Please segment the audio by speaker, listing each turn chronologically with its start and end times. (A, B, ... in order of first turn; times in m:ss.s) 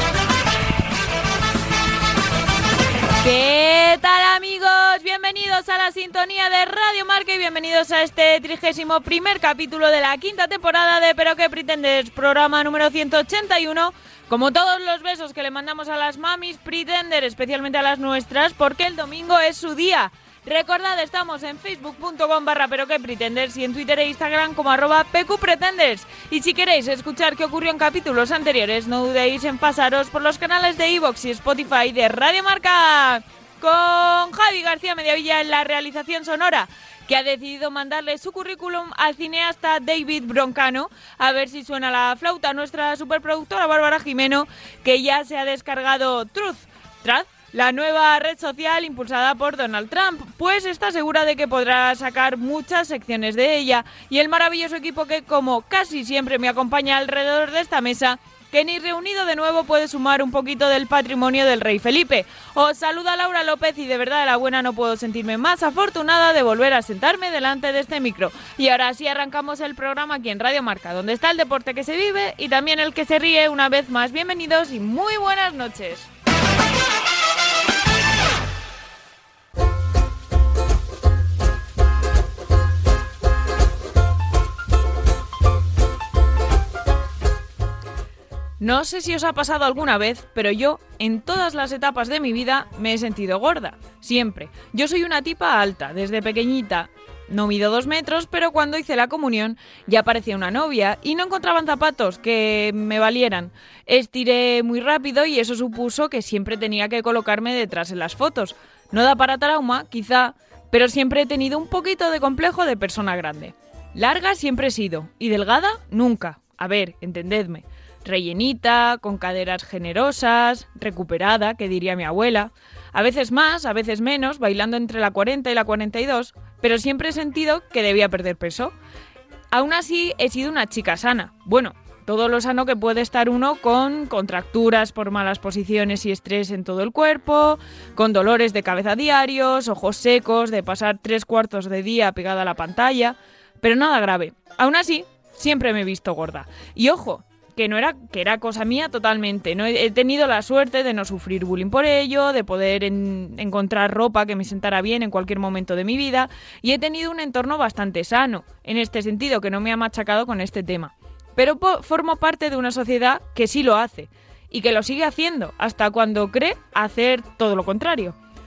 0:03.2-1:16.1 A
1:28.6-2:08.8 A
2:09.5-2:48.1 A